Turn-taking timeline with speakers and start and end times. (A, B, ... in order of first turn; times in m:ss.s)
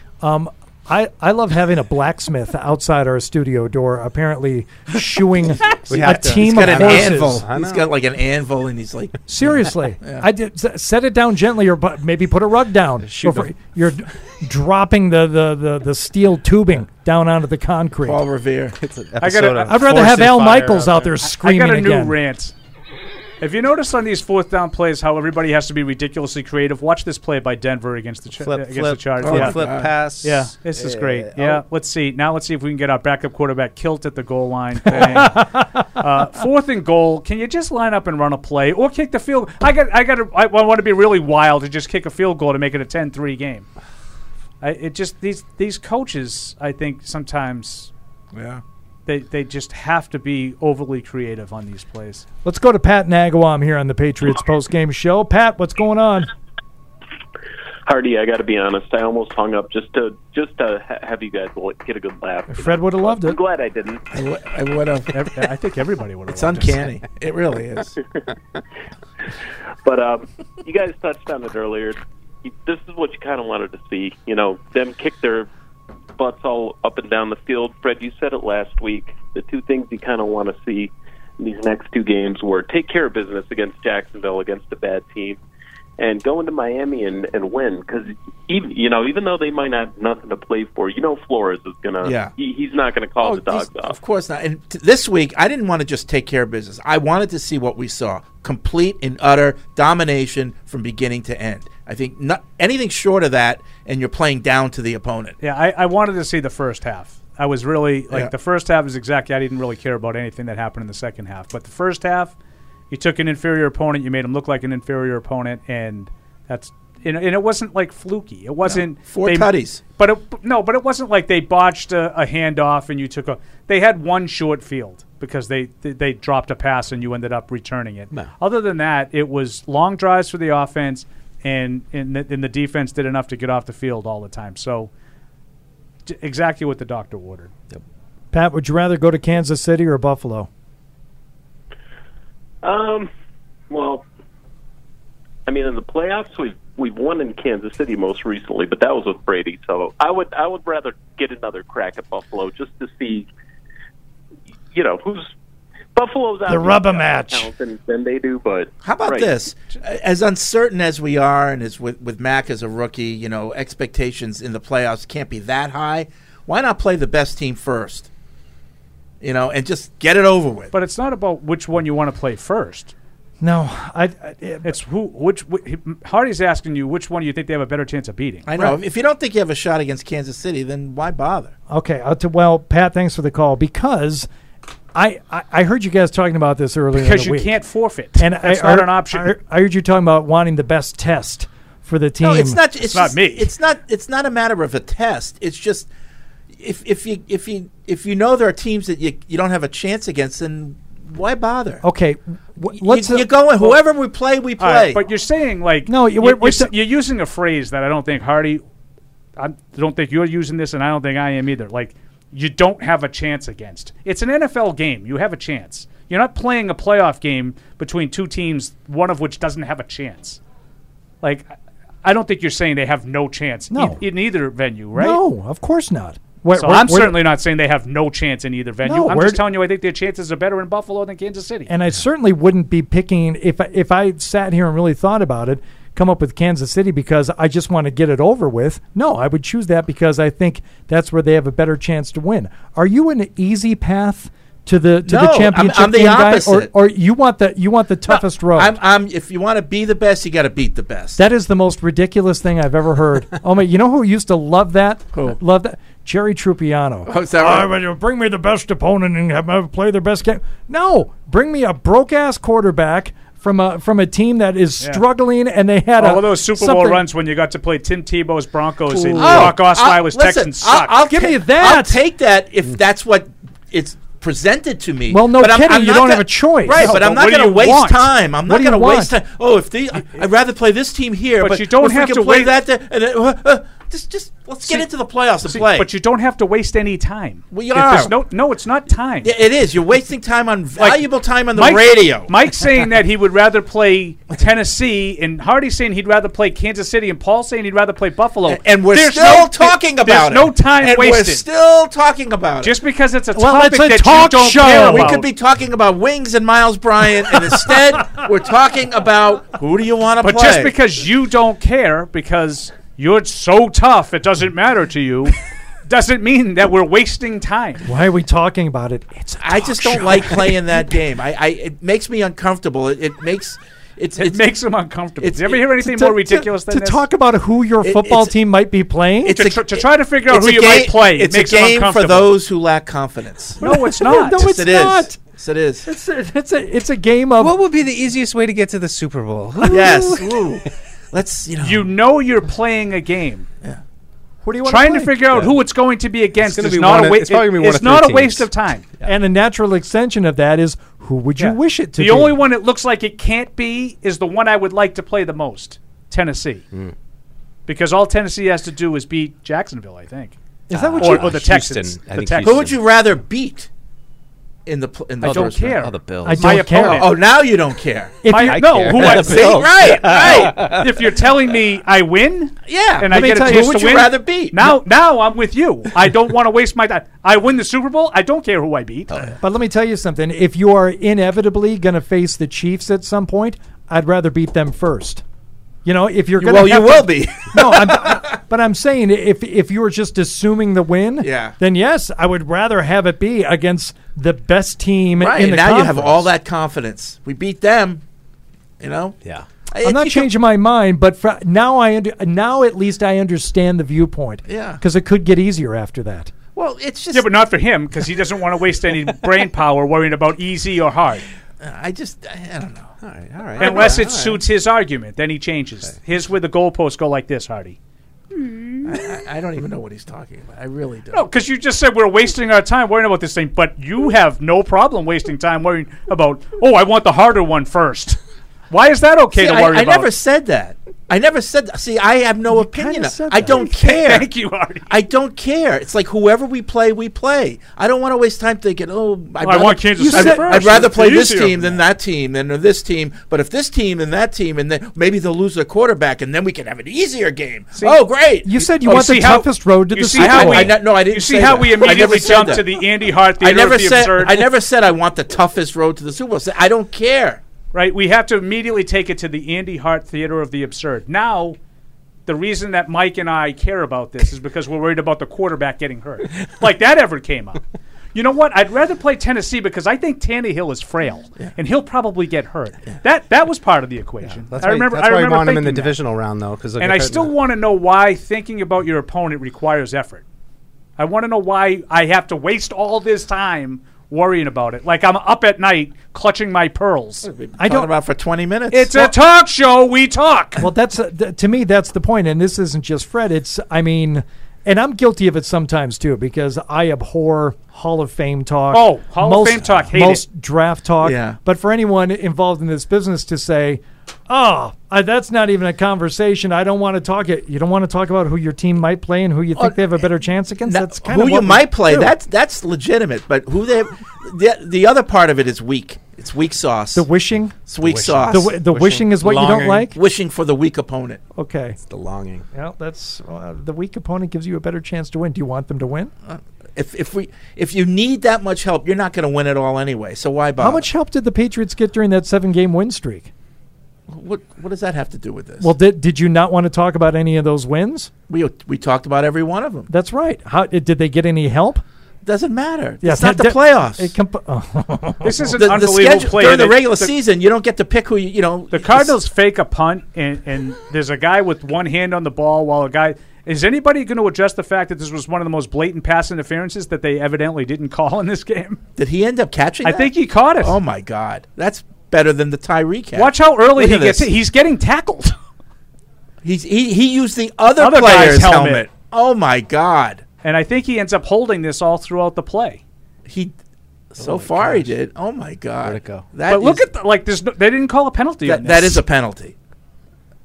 0:00.2-0:07.4 A
0:05.9-0:07.9 B
0:06.0-0:09.2 C
0:09.3-0:18.2 A
0:10.0-0:10.3 C
0:13.0-0:13.5 B
0:18.0-0:18.8 C
0:18.8-0:21.1 B
0:19.2-0:20.3 D
0:19.6-0:22.2 A
0:21.2-0:22.5 D
0:23.4-0:29.6 D
0:28.4-0:31.0 B
0:29.2-0:29.9 C
0:30.2-0:43.6 D
0:35.0-0:35.8 A
0:44.6-0:47.9 D
0:48.3-0:48.6 C
0:49.0-0:52.2 D
0:52.4-0:56.3 A
0:57.9-1:04.0 E
1:02.5-1:03.4 A
1:04.1-1:05.1 C
1:05.1-1:06.9 D
1:06.3-1:08.0 C
1:09.8-1:15.5 E
1:16.2-1:25.4 E
1:26.0-1:34.0 E
1:32.0-1:32.3 C
1:33.2-1:45.4 C
1:45.4-1:52.3 D
1:52.9-2:14.9 D
1:58.7-1:59.8 C
2:16.0-2:17.5 D
2:18.3-2:20.5 A
2:22.6-2:23.1 E
2:23.7-2:24.0 E
2:25.5-2:33.3 E
2:34.7-2:35.3 E
2:35.9-2:39.3 E
2:36.5-2:37.5 A
2:38.8-2:48.1 C
2:49.2-2:50.7 C
2:50.7-2:52.9 D
2:53.4-2:54.7 A
2:54.6-2:58.5 D
2:58.4-3:01.5 C
3:01.7-3:04.3 A
3:04.9-3:07.5 A
3:06.9-3:09.3 D
3:08.2-3:12.6 A
3:12.2-3:15.9 C
3:12.8-3:13.5 D
3:16.5-3:21.8 C
3:21.8-3:23.3 A
3:22.7-3:25.0 C
3:24.6-3:28.6 D
3:25.8-3:26.7 A
3:29.4-3:40.4 D
3:41.2-3:45.2 D
3:43.7-3:44.0 A
3:45.0-3:47.2 A
3:46.5-3:51.7 D
3:48.8-3:49.4 A
3:51.7-4:08.8 A
4:05.0-4:06.7 C
4:08.1-4:11.2 C
4:11.2-4:27.0 A
4:17.0-4:17.7 C
4:26.0-4:31.0 D
4:29.0-4:29.6 A
4:29.0-4:45.9 C
4:31.0-4:32.0 A
4:35.1-4:37.0 A
4:36.7-4:38.1 D
4:38.4-4:39.2 A
4:41.4-4:42.6 D
4:45.4-4:49.3 D
4:47.5-4:48.2 C
4:49.2-4:52.4 C
4:50.8-5:01.4 D
4:58.4-5:02.8 C
5:02.6-5:05.3 D
5:03.3-5:05.1 A
5:04.5-5:10.7 C
5:10.2-5:15.3 D
5:15.8-5:17.8 D
5:17.8-5:21.0 A
5:19.4-5:24.4 C
5:24.2-5:27.0 D
5:25.2-5:25.6 C
5:25.8-5:29.4 A
5:27.8-5:28.3 C
5:29.2-5:33.6 C
5:29.3-5:32.3 D
5:33.6-5:34.5 D
5:33.6-5:35.2 A
5:34.2-5:35.8 C
5:35.8-5:37.6 A
5:37.4-5:40.2 B
5:39.6-5:41.9 C
5:41.6-5:43.5 D
5:44.4-5:45.2 A
5:44.7-5:48.8 D
5:46.4-5:49.1 B
5:49.0-5:52.4 A
5:51.4-5:56.6 D
5:57.7-6:00.4 D
6:00.7-6:01.4 A
6:00.7-6:02.8 B
6:01.0-6:02.6 D
6:02.4-6:03.7 C
6:04.6-6:05.8 C
6:05.2-6:07.1 D
6:05.2-6:06.6 B
6:06.2-6:07.1 A
6:06.8-6:08.2 C
6:08.2-6:08.9 A
6:08.3-6:19.3 D
6:08.5-6:10.8 B
6:09.0-6:10.8 C
6:12.6-6:14.7 C
6:13.1-6:13.9 A
6:19.4-6:25.2 A
6:25.8-6:36.3 A
6:26.4-6:28.3 C
6:31.2-6:31.5 C
6:35.2-6:38.0 C
6:38.8-6:39.2 C
6:39.7-6:40.3 C
6:39.8-6:46.3 A
6:44.5-6:44.8 C
6:46.5-6:47.3 C
6:47.1-6:51.2 D
6:51.6-6:52.9 C
6:53.0-6:54.4 B
6:53.6-6:54.0 C
6:53.6-6:57.8 D
6:58.8-7:01.2 C
7:01.1-7:08.2 D
7:08.7-7:10.1 D
7:09.3-7:14.3 C
7:12.5-7:13.7 A
7:13.5-7:14.9 D
7:14.9-7:29.2 C
7:19.4-7:21.8 D
7:20.0-7:20.8 A
7:27.7-7:28.0 D
7:28.4-7:30.8 A
7:28.8-7:34.4 D
7:30.1-7:32.8 C
7:33.4-7:37.4 C
7:37.7-7:41.6 D
7:42.3-7:47.6 D
7:48.1-7:56.0 D
7:54.3-7:57.3 B
7:56.8-8:00.2 D
8:01.0-8:07.3 D
8:07.2-8:09.1 C
8:07.6-8:07.9 A
8:08.7-8:10.6 D
8:10.6-8:32.1 A
8:18.7-8:20.2 D
8:21.0-8:21.4 C
8:30.6-8:37.1 C
8:36.9-8:37.6 A
8:37.7-8:38.5 C
8:37.8-8:39.9 B
8:38.3-8:40.0 A
8:39.9-8:41.2 C
8:41.3-8:41.8 A
8:41.8-8:42.4 B
8:42.5-8:46.1 A
8:46.2-8:50.8 C
8:50.6-8:53.3 A
8:54.1-8:55.7 C
8:55.6-8:58.1 A
8:58.3-8:59.9 C
8:59.9-9:01.8 A
9:02.2-9:04.1 C
9:03.0-9:05.5 A
9:05.2-9:07.1 D
9:05.5-9:09.2 C
9:08.7-9:18.8 D
9:19.0-9:24.3 C
9:19.8-9:20.8 D
9:23.1-9:25.4 D
9:26.4-9:30.2 C
9:27.8-9:28.8 D
9:30.4-9:32.8 D
9:33.2-9:33.5 C
9:34.1-9:36.8 C
9:34.2-9:34.9 B
9:35.8-9:36.3 B
9:36.5-9:39.0 D
9:38.4-9:39.5 C